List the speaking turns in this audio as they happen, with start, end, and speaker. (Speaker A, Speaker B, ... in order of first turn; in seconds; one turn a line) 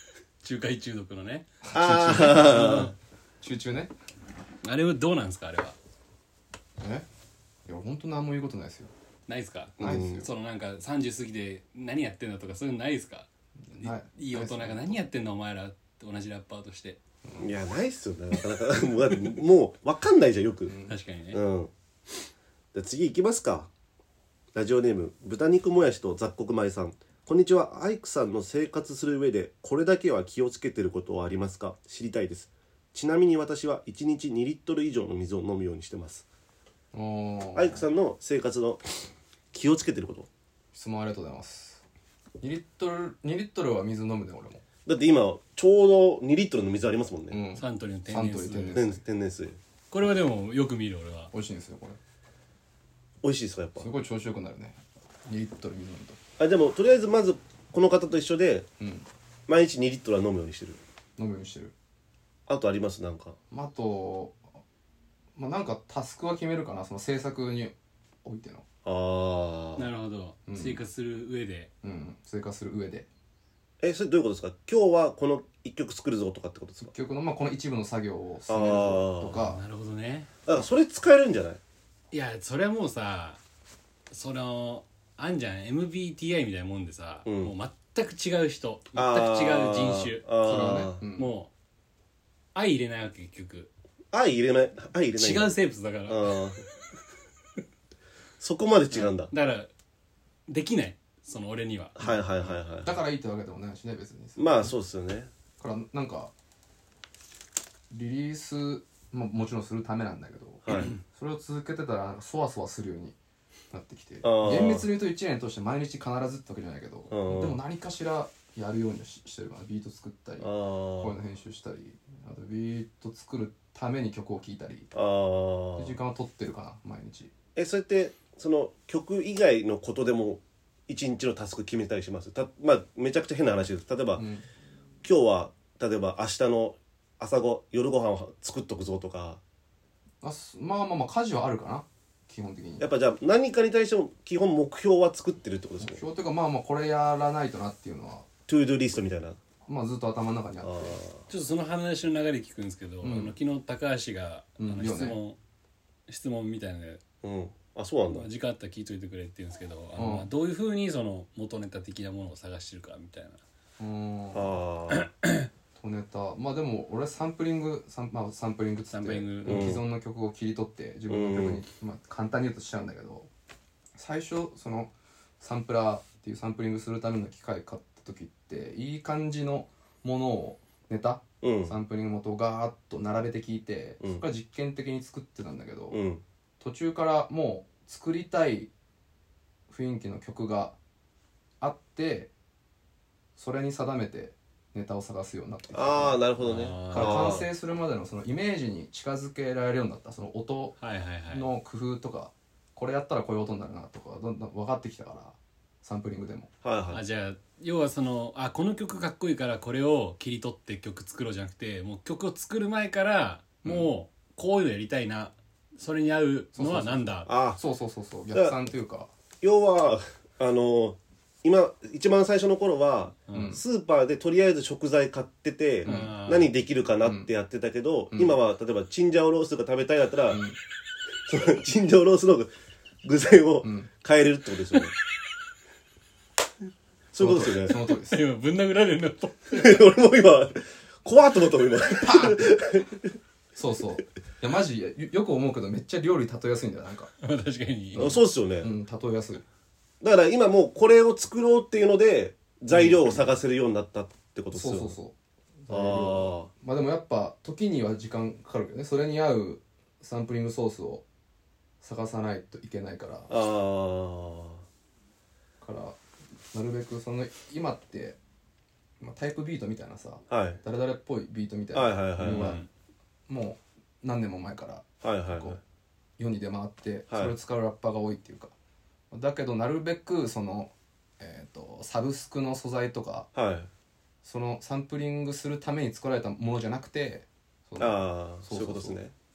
Speaker A: 0.4-2.9
Speaker B: 1.6-2.9
Speaker C: 1.7-2.9
Speaker B: 3.4-3.9
Speaker A: 4.6-5.8
Speaker B: 6.8-7.0
Speaker B: 7.7-8.9
Speaker A: 9.3-17.0
Speaker B: 9.8-10.3
Speaker C: 9.8-10.2
Speaker B: 13.7-15.0
Speaker C: 17.4-20.7
Speaker B: 20.6-20.9
Speaker A: 20.9-21.4
Speaker C: 21.3-21.7
Speaker C: 22.7-23.7
Speaker C: 24.5-36.2
Speaker B: 36.9-37.8
Speaker C: 37.5-40.3
Speaker B: 40.7-41.8
Speaker B: 42.4-44.6
Speaker C: 44.9-47.4
Speaker B: 47.3-49.0
Speaker A: 47.5-48.8
Speaker C: 48.7-49.6
Speaker A: 49.9-51.3
Speaker B: 51.3-52.0
Speaker C: 53.2-53.9
Speaker B: 53.8-56.2
Speaker C: 56.4-58.7
Speaker B: 58.8-59.1
Speaker C: 59.5-60.8
Speaker B: 61.2-61.7
Speaker C: 62.5-63.4
Speaker B: 63.5-64.4
Speaker B: 65.3-68.6
Speaker C: 68.8-69.8
Speaker A: 69.8-71.7
Speaker B: 70.5-70.8
Speaker B: 71.8-73.1
Speaker C: 73.8-76.9
Speaker B: 76.8-79.6
Speaker C: 78.5-79.4
Speaker A: 79.3-80.3
Speaker C: 80.5-81.6
Speaker A: 82.1-83.4
Speaker A: 84.1-90.2
Speaker C: 87.2-87.5
Speaker C: 88.9-91.0
Speaker B: 90.4-91.3
Speaker A: 91.1-91.5
Speaker A: 92.5-93.7
Speaker C: 94.1-95.5
Speaker A: 95.1-96.7
Speaker C: 96.1-96.6
Speaker C: 98.4-99.3
Speaker A: 98.9-99.7
Speaker A: 100.5-102.5
Speaker C: 102.0-103.0
Speaker B: 102.8-104.7
Speaker C: 104.4-105.3
Speaker B: 105.6-106.3
Speaker B: 107.9-113.2
Speaker C: 110.7-110.9
Speaker B: 113.7-124.9
Speaker C: 114.2-114.9
Speaker C: 117.1-117.6
Speaker C: 120.4-121.1
Speaker C: 124.9-126.0
Speaker B: 125.8-127.3
Speaker C: 127.5-134.2
Speaker B: 134.2-134.4
Speaker C: 135.0-139.4
Speaker B: 140.2-142.8
Speaker C: 142.8-146.0
Speaker B: 145.8-148.3
Speaker C: 148.5-149.4
Speaker B: 149.7-151.0
Speaker C: 150.6-151.2
Speaker A: 151.3-155.4
Speaker B: 153.0-153.3
Speaker B: 154.6-155.2
Speaker A: 156.1-157.0
Speaker C: 157.2-158.3
Speaker A: 158.1-163.4
Speaker B: 159.9-160.3
Speaker B: 163.8-164.6
Speaker C: 164.3-165.1
Speaker A: 164.9-165.5
Speaker B: 165.8-173.3
Speaker A: 168.9-169.7
Speaker C: 169.4-169.8
Speaker C: 171.1-171.6
Speaker B: 173.9-186.0
Speaker C: 181.4-181.7
Speaker C: 185.9-186.2
Speaker B: 186.6-188.7
Speaker B: 189.7-190.8
Speaker B: 191.6-192.3
Speaker B: 193.4-196.2
Speaker C: 195.7-197.5
Speaker A: 196.4-197.4
Speaker B: 196.9-200.8
Speaker A: 200.8-201.5
Speaker B: 201.3-206.5
Speaker C: 206.6-207.0
Speaker A: 206.9-217.3
Speaker B: 216.5-219.1
Speaker C: 217.3-217.6
Speaker C: 219.4-230.4
Speaker A: 223.3-223.6
Speaker B: 223.3-223.6
Speaker B: 225.8-226.2
Speaker A: 225.8-226.5
Speaker B: 227.0-227.3
Speaker B: 228.1-228.4
Speaker B: 230.3-230.6
Speaker C: 231.2-232.5
Speaker C: 233.0-234.9
Speaker B: 233.6-233.9
Speaker C: 237.1-237.8
Speaker B: 237.2-238.2
Speaker A: 237.7-239.8
Speaker C: 239.5-243.1
Speaker B: 241.8-242.8
Speaker B: 243.5-247.1
Speaker A: 247.2-248.1
Speaker B: 247.9-249.4
Speaker C: 248.0-248.7
Speaker C: 250.0-254.9
Speaker B: 252.7-253.3
Speaker B: 254.5-261.0
Speaker C: 255.7-256.5
Speaker B: 261.8-263.3
Speaker C: 263.3-264.6
Speaker B: 265.6-266.0
Speaker B: 266.5-268.2
Speaker B: 269.0-272.6
Speaker C: 270.3-270.6
Speaker C: 271.7-272.6
Speaker A: 272.2-272.7
Speaker B: 273.3-275.6
Speaker C: 275.0-275.6
Speaker B: 276.2-278.5
Speaker B: 279.1-283.3
Speaker C: 283.3-283.7
Speaker B: 284.2-289.0
Speaker C: 287.8-289.1